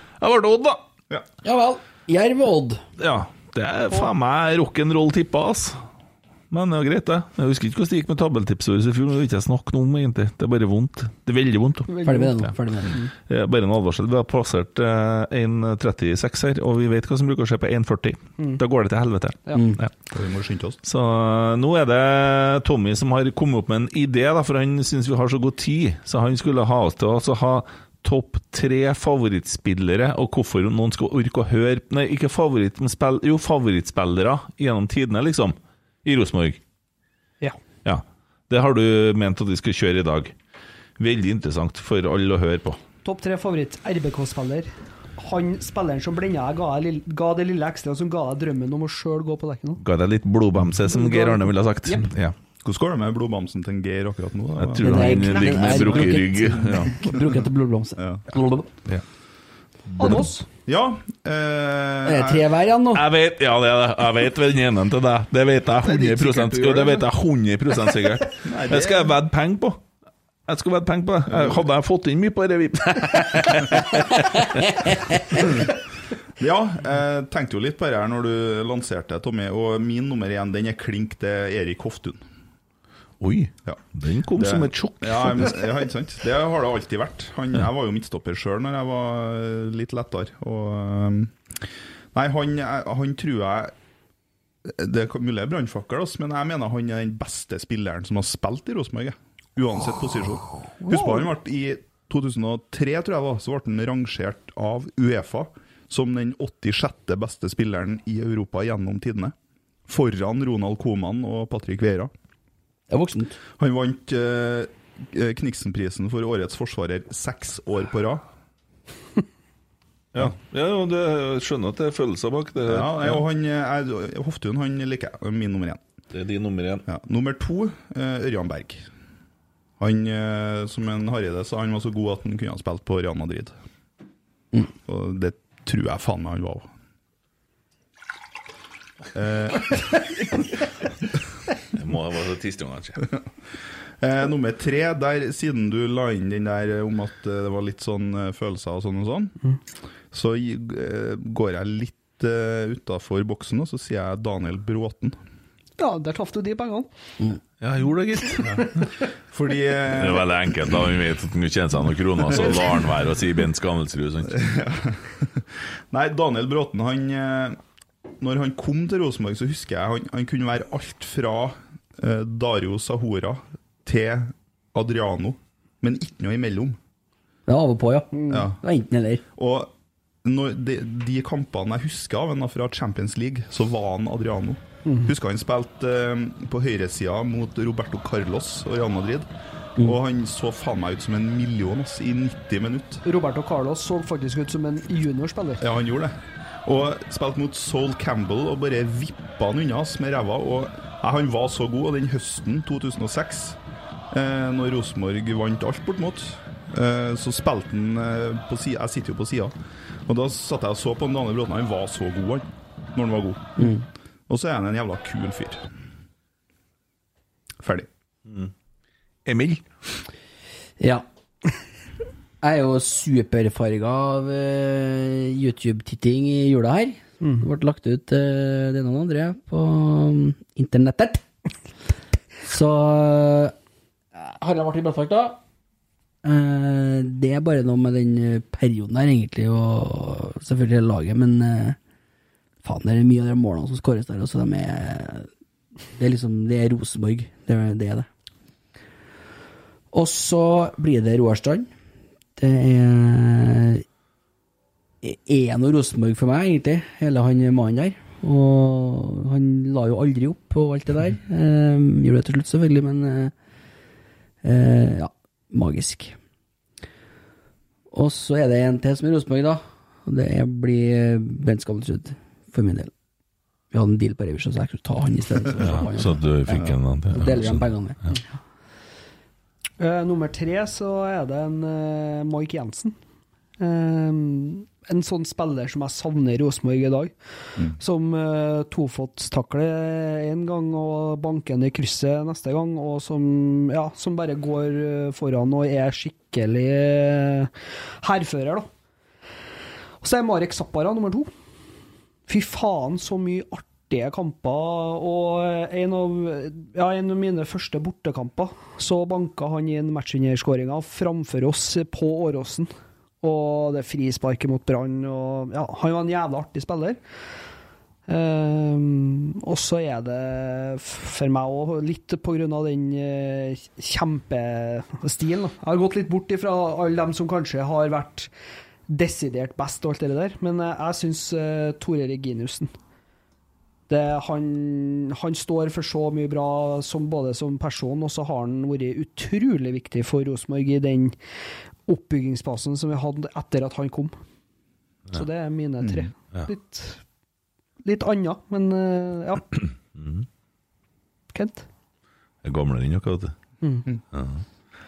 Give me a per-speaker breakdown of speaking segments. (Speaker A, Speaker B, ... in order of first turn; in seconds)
Speaker A: 0.2-0.8, 3.0-5.8, 6.5-11.9, 13.2-19.9, 20.8-36.6, 37.8-40.3, 41.0-42.8, 49.8-52.3, 54.6-56.9, 59.9-60.2, 62.9-69.8, 70.5-75.5, 83.2-85.5, 120.1-123.2, 126.1-126.8, 141.7-143.1, 157.6-158.8, 159.9-164.4, 219.2-219.7, 275.6-277.7, 349.9-350.2, 352.4-353.3, 354.1-354.4
Speaker B: 1.4-2.8, 12.0-13.0, 19.5-19.8, 54.8-58.7, 62.0-63.0, 112.9-113.3, 177.5-179.2, 213.6-213.8, 220.8-221.0, 222.4-231.2, 232.4-233.5, 234.1-235.4, 236.2-241.8, 242.6-245.3, 245.9-248.1, 249.9-251.7, 252.4-253.8, 255.0-263.3, 264.4-266.2, 267.9-272.9, 273.7-278.0
Speaker C: 11.9-12.4, 43.0-49.8, 51.0-51.4, 55.4-56.1, 60.0-60.5, 100.9-101.3, 155.8-156.9, 178.1-178.5, 184.8-185.1, 193.0-195.7, 279.8-282.9, 283.6-298.7, 300.0-301.3, 302.3-312.7, 313.2-317.0, 318.1-328.3, 328.9-332.7, 333.9-341.1, 341.9-344.1, 345.1-347.0, 347.8-349.6, 351.3-351.6
Speaker D: 20.1-20.8, 52.6-55.3, 56.5-57.4, 60.6-62.4, 65.8-67.0, 68.4-69.1, 71.3-71.6, 75.3-75.7, 76.4-82.2, 84.3-91.5, 92.1-93.7, 94.7-109.3, 109.9-112.1, 113.6-118.2, 122.7-125.8, 126.9-128.8, 129.8-133.5, 134.8-136.7, 139.1-140.0, 144.0-149.4, 150.1-155.2, 159.3-160.3, 162.3-162.6, 164.3-167.6, 168.2-176.8, 178.3-178.6, 179.3-179.7, 180.2-193.0, 195.6-196.1, 196.6-203.6, 204.1-213.7, 214.3-215.6, 217.6-217.9, 345.8-346.1